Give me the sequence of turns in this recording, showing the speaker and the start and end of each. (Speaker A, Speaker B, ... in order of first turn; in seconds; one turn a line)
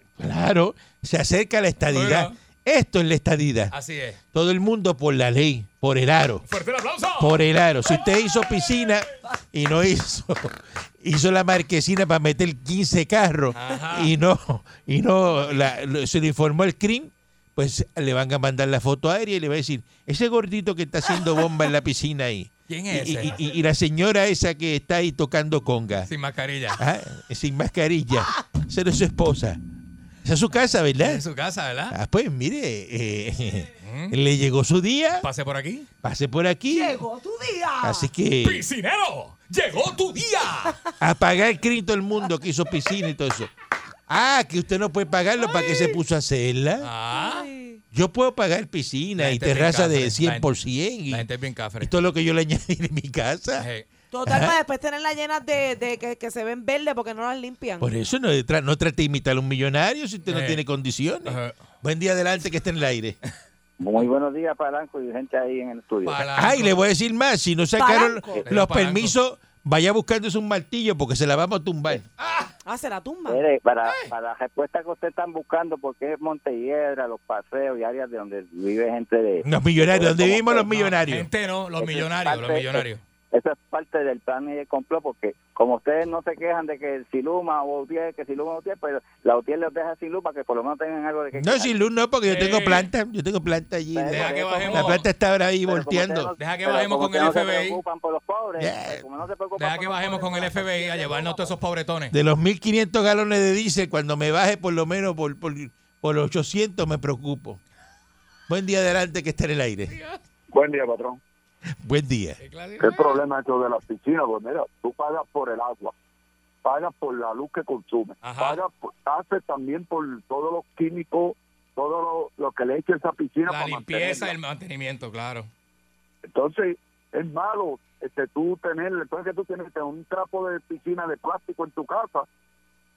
Speaker A: 0.2-3.7
Speaker B: 1.9-2.4
Speaker B: 3.7-4.2
Speaker A: 4.3-6.5
Speaker B: 6.5-7.4
Speaker A: 7.2-26.1
Speaker B: 13.5-14.1
Speaker B: 22.7-23.4
Speaker B: 26.1-26.8
Speaker A: 26.8-29.6
Speaker A: 30.2-31.2
Speaker B: 31.0-32.0
Speaker A: 31.9-35.3
Speaker B: 33.8-34.2
Speaker B: 35.2-35.9
Speaker A: 36.0-37.0
Speaker C: 36.7-38.1
Speaker A: 37.8-38.7
Speaker B: 38.4-40.8
Speaker A: 41.0-43.5
Speaker A: 44.1-46.9
Speaker B: 46.8-47.5
Speaker C: 47.1-47.8
Speaker A: 47.9-51.2
Speaker B: 49.2-50.5
Speaker B: 51.1-51.9
Speaker A: 51.8-53.7
Speaker B: 53.6-53.9
Speaker C: 54.1-57.9
Speaker A: 54.2-54.5
Speaker A: 57.8-63.2
Speaker B: 60.3-60.6
Speaker B: 61.2-61.5
Speaker D: 63.8-66.3
Speaker B: 66.0-66.8
Speaker A: 66.3-72.0
Speaker C: 67.8-68.4
Speaker B: 68.5-69.2
Speaker B: 72.2-72.5
Speaker C: 72.7-73.5
Speaker D: 73.3-80.7
Speaker B: 73.8-74.1
Speaker A: 79.4-81.3
Speaker B: 80.7-83.0
Speaker D: 81.8-91.8
Speaker A: 91.3-96.3
Speaker B: 92.2-92.9
Speaker D: 93.9-95.0
Speaker B: 94.1-95.1
Speaker D: 95.7-101.5
Speaker B: 96.4-97.8
Speaker A: 98.6-99.0
Speaker B: 99.6-102.2
Speaker A: 102.1-107.6
Speaker A: 108.5-109.9
Speaker B: 109.9-110.2
Speaker E: 110.5-111.2
Speaker A: 111.8-112.4
Speaker B: 112.4-113.2
Speaker E: 112.8-115.9
Speaker E: 116.6-124.3
Speaker B: 118.2-118.6
Speaker B: 123.5-125.5
Speaker E: 126.3-132.3